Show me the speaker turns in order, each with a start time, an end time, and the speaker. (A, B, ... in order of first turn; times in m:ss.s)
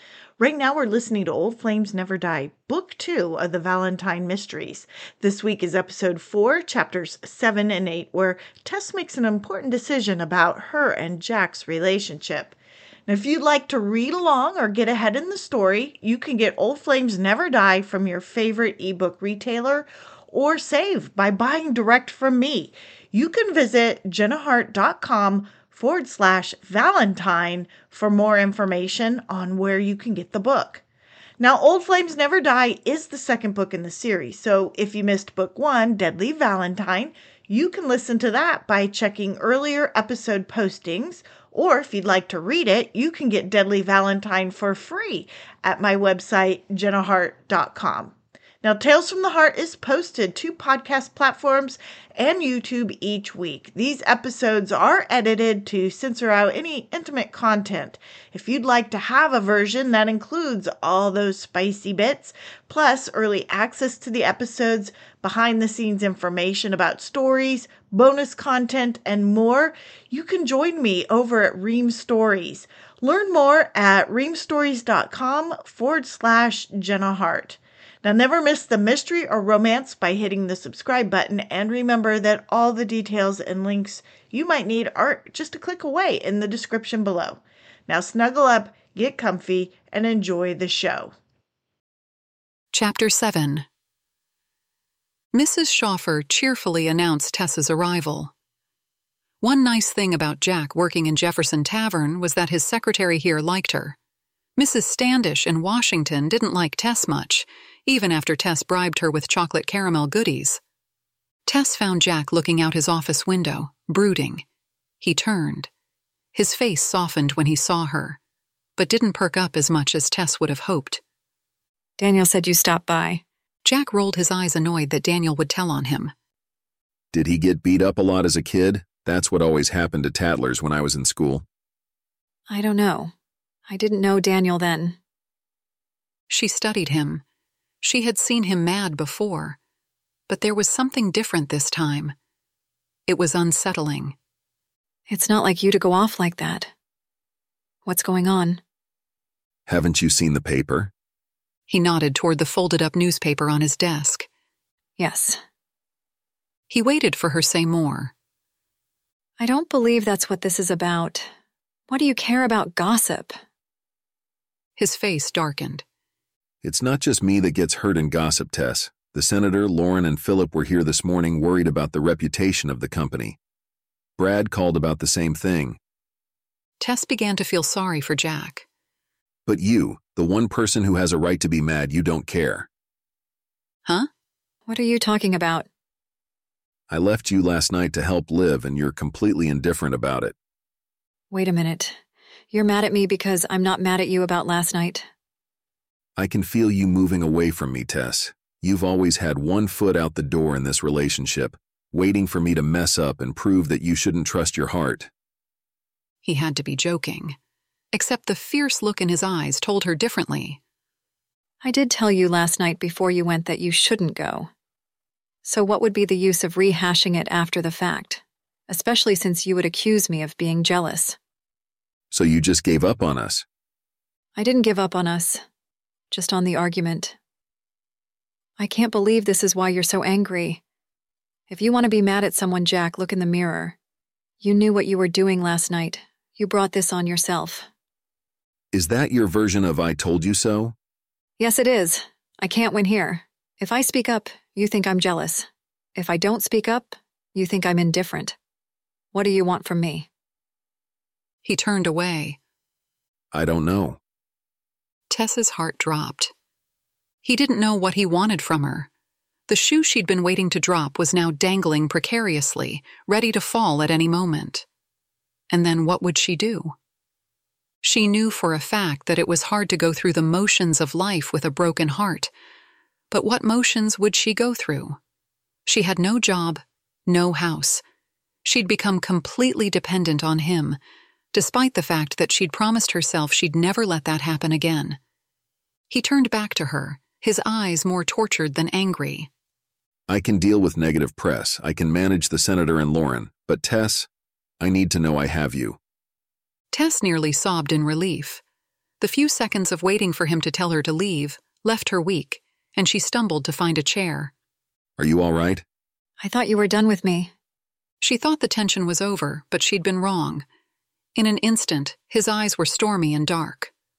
0:00.4-0:12.6 A
0:13.1-0:30.8 A
0:31.4-1:31.1 A
1:32.7-1:33.7 B
1:35.3-1:38.3 B
1:39.4-1:44.0 B
1:44.6-1:50.6 B
1:51.5-1:54.4 B
1:55.0-1:55.7 B
1:56.3-1:58.2 B
1:58.8-2:01.0 B
2:02.0-2:03.2 C
2:03.6-2:06.1 B
2:07.1-2:11.4 D
2:12.5-2:13.1 C
2:13.7-2:15.0 C
2:16.3-2:17.2 B
2:17.8-2:19.6 B
2:20.3-2:22.2 B
2:23.1-2:24.2 B
2:25.1-2:26.7 C
2:27.8-2:28.6 C
2:29.7-2:30.9 D
2:31.7-2:34.3 B
2:35.0-2:35.4 C
2:36.7-2:38.1 B
2:39.4-2:41.3 C
2:41.9-2:43.4 C
2:44.8-2:45.8 B
2:46.6-2:53.4 D
2:54.2-2:55.8 D
2:56.8-2:58.7 B
2:59.5-3:02.7 D
3:04.7-3:05.7 C
3:06.9-3:10.4 D
3:11.3-3:12.0 C
3:12.5-3:15.1 C
3:16.2-3:25.1 D
3:26.2-3:27.4 B
3:27.9-3:30.6 B
3:31.6-3:34.5 C
3:35.4-3:41.2 C
3:42.1-3:43.4 D
3:44.4-3:45.4 C
3:46.1-3:47.2 C
3:48.6-3:50.6 C
3:51.5-3:53.8 C
3:54.4-3:57.7 C
3:58.7-4:00.8 D
4:01.4-4:08.4 C
4:09.1-4:10.1 C
4:11.4-4:12.4 B
4:13.3-4:14.0 D
4:15.1-4:16.3 B
4:17.2-4:18.9 B
4:19.5-4:24.6 B
4:25.5-4:26.8 B
4:27.8-4:32.3 B
4:33.1-4:35.0 B
4:35.7-4:37.8 B
4:38.4-4:40.8 B
4:41.3-4:45.0 B
4:45.9-4:49.3 B
4:50.1-4:54.1 D
4:54.6-4:55.8 D
4:56.7-4:58.4 B
4:59.0-5:04.3 B
5:05.0-5:05.6 D
5:06.2-5:07.3 C
5:08.0-5:10.4 B
5:11.2-5:13.7 B